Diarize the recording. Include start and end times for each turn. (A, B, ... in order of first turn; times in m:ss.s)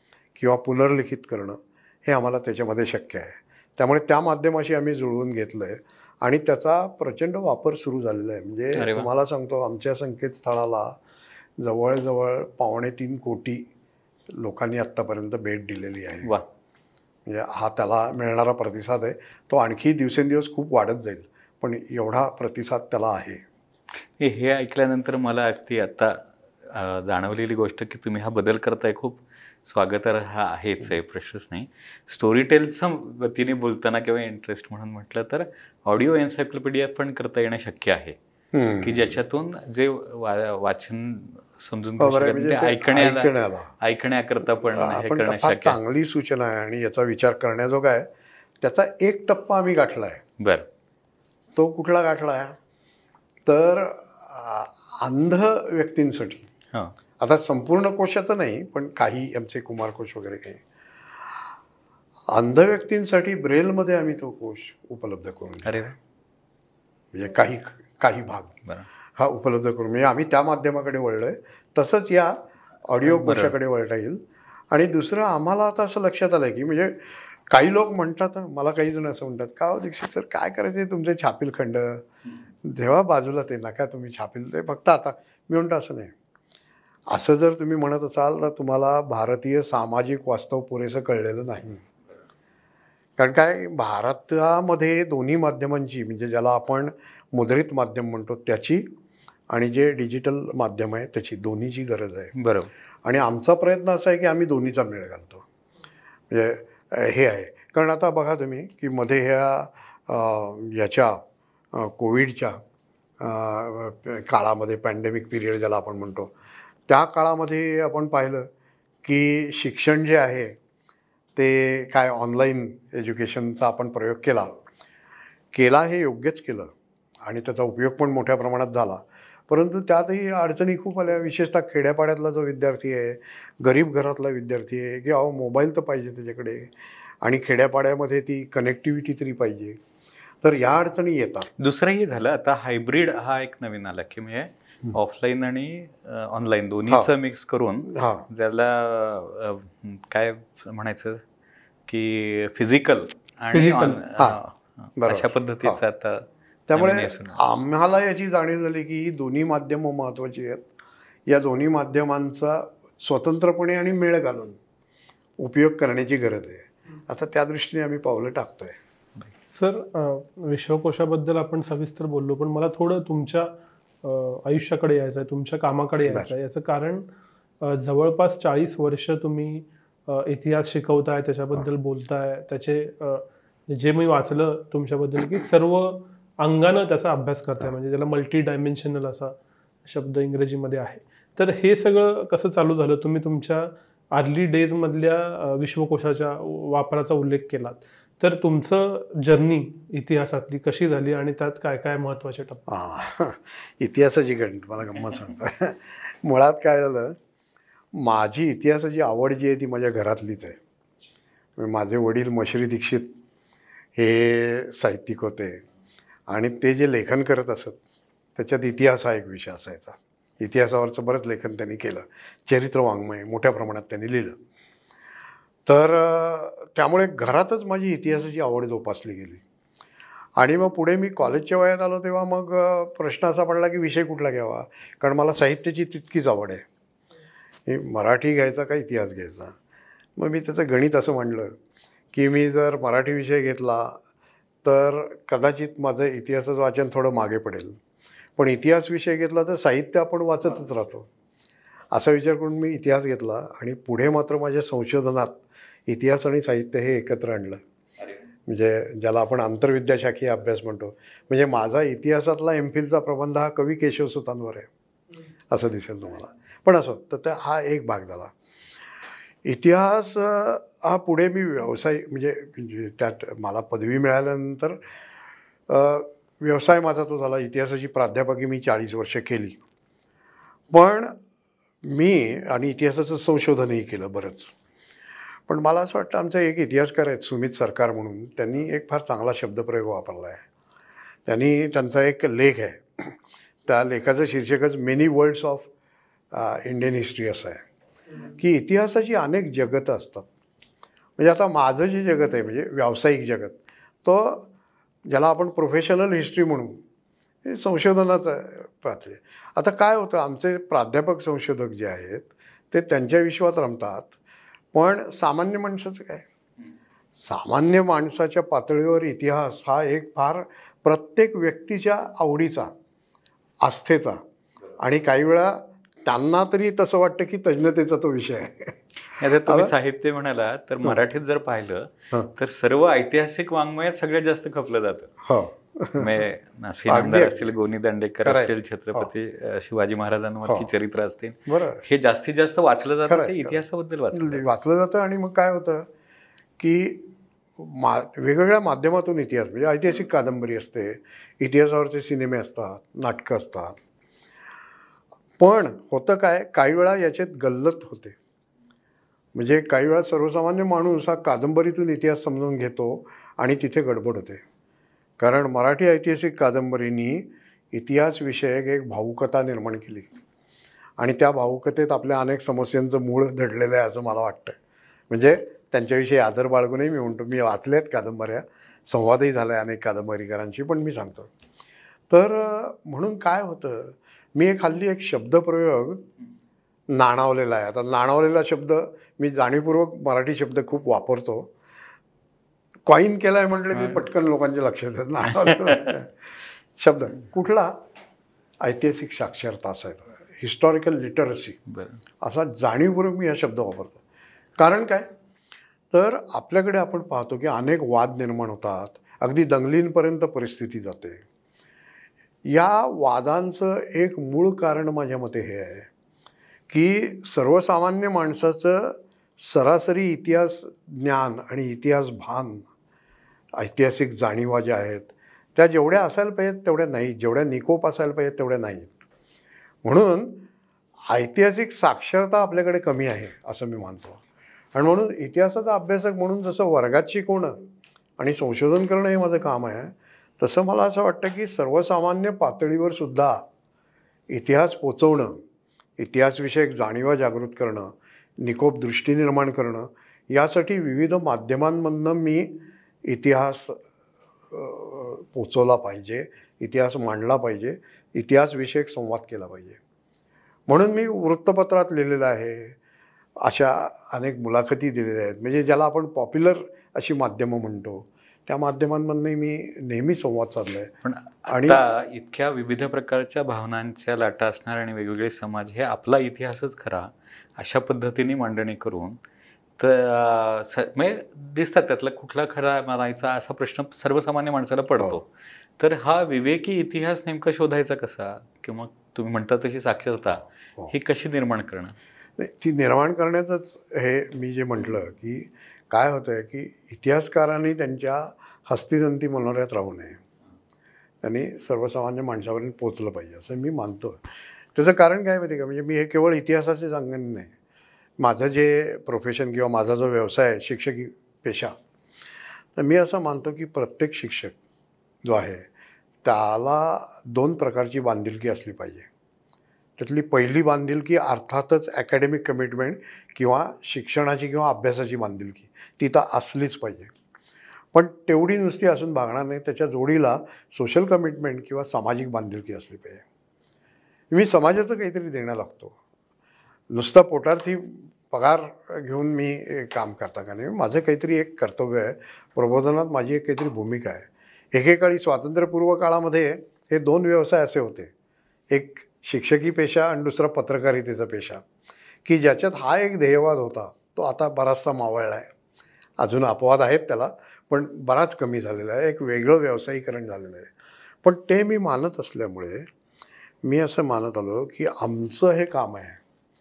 0:00.4-0:11.0 A
0:08.8-0:09.1 B
0:11.6-0:13.7 A
0:14.3-0:16.3 A
0:17.3-0:23.4 A
0:24.2-0:38.2 B
0:38.5-0:39.2 A
0:38.8-0:45.8 B
0:42.0-0:43.7 A
0:44.6-0:48.1 A
0:48.6-0:50.2 A
0:50.4-0:50.7 B
0:51.6-0:52.6 A
0:53.4-0:56.5 A
0:57.2-1:00.6 A
1:02.3-1:06.0 A
1:05.6-1:05.9 B
1:07.1-1:08.6 A
1:09.2-1:14.2 A
1:13.1-1:13.6 B
1:14.7-1:22.0 A
1:22.6-1:26.1 A
1:27.1-1:31.8 A
1:33.2-1:38.9 A
1:39.5-1:42.3 A
1:42.4-1:42.7 B
1:43.0-1:45.4 A
1:46.3-1:51.2 A
1:51.7-1:52.6 A
1:53.2-1:56.3 A
1:56.9-1:58.5 A
1:59.0-2:00.6 A
2:01.4-2:04.6 A
2:05.5-2:16.7 A
2:17.2-2:19.8 A
2:20.4-2:21.5 A
2:21.6-2:31.2 B
2:27.8-2:28.2 A
2:31.9-2:37.4 B
2:33.5-2:34.0 C
2:35.0-2:35.8 A
2:36.7-2:40.7 A
2:41.3-2:44.6 A
2:45.4-2:48.8 A
2:49.5-2:53.5 C
2:54.0-2:57.1 C
2:57.6-3:22.6 C
3:22.7-3:27.2 A
3:27.9-3:30.6 A
3:31.6-3:33.1 A
3:34.0-3:35.6 A
3:36.3-3:37.8 A
3:38.4-3:44.4 A
3:45.6-3:49.4 A
3:50.4-3:56.6 A
3:57.7-3:59.6 A
4:00.2-4:01.6 A
4:02.1-4:04.0 A
4:04.6-4:07.8 A
4:08.4-4:11.1 A
4:11.9-4:17.6 A
4:18.5-4:24.7 A
4:25.5-4:28.3 A
4:29.4-4:34.8 A
4:35.7-4:39.6 A
4:40.7-4:41.2 A
4:41.8-4:44.5 A
4:45.5-4:50.4 A
4:51.3-4:55.7 A
4:56.3-4:57.6 A
4:58.3-5:00.3 A
5:01.2-5:04.5 A
5:05.1-5:06.8 A
5:07.4-5:14.1 A
5:14.7-5:16.2 A
5:17.2-5:22.7 A
5:23.6-5:24.2 A
5:24.8-5:28.8 A
5:29.2-5:35.1 B
5:29.4-5:29.7 A
5:35.2-5:36.1 A
5:36.0-5:44.4 B
5:36.9-5:37.5 A
5:38.2-5:39.1 A
5:41.5-5:41.8 A
5:43.1-5:43.6 A
5:44.1-5:45.9 A
5:46.6-5:53.8 A
5:55.4-5:58.2 A
5:59.4-6:04.4 A
6:05.2-6:10.1 A
6:11.0-6:14.6 A
6:15.1-6:21.3 A
6:22.1-6:26.0 A
6:26.9-6:31.5 A
6:32.9-6:36.1 A
6:36.8-6:37.8 A
6:38.6-6:41.6 A
6:41.7-6:42.0 B
6:42.2-6:44.0 A
6:44.6-6:45.1 A
6:45.9-6:51.2 A
6:52.5-6:55.9 A
6:56.7-7:02.7 A
7:03.6-7:08.9 A
7:09.8-7:10.4 A
7:11.1-7:14.2 A
7:14.7-7:17.6 A
7:18.2-7:23.4 A
7:24.3-7:25.4 A
7:26.0-7:33.8 A
7:34.5-7:39.8 A
7:40.7-7:42.8 A
7:43.4-7:50.9 A
7:51.0-7:59.2 B
7:51.5-7:51.8 A
7:59.8-8:05.3 B
8:05.8-8:12.0 B
8:12.4-8:20.2 A
8:21.2-8:27.5 A
8:28.2-8:31.8 A
8:32.8-8:34.6 A
8:35.2-8:35.7 A
8:36.2-8:39.1 A
8:40.0-8:47.1 A
8:47.9-8:53.2 A
8:54.3-8:56.0 A
8:56.9-9:08.1 A
9:08.7-9:11.6 A
9:12.2-9:15.5 A
9:16.2-9:20.7 A
9:21.2-9:22.9 A
9:23.6-9:26.2 A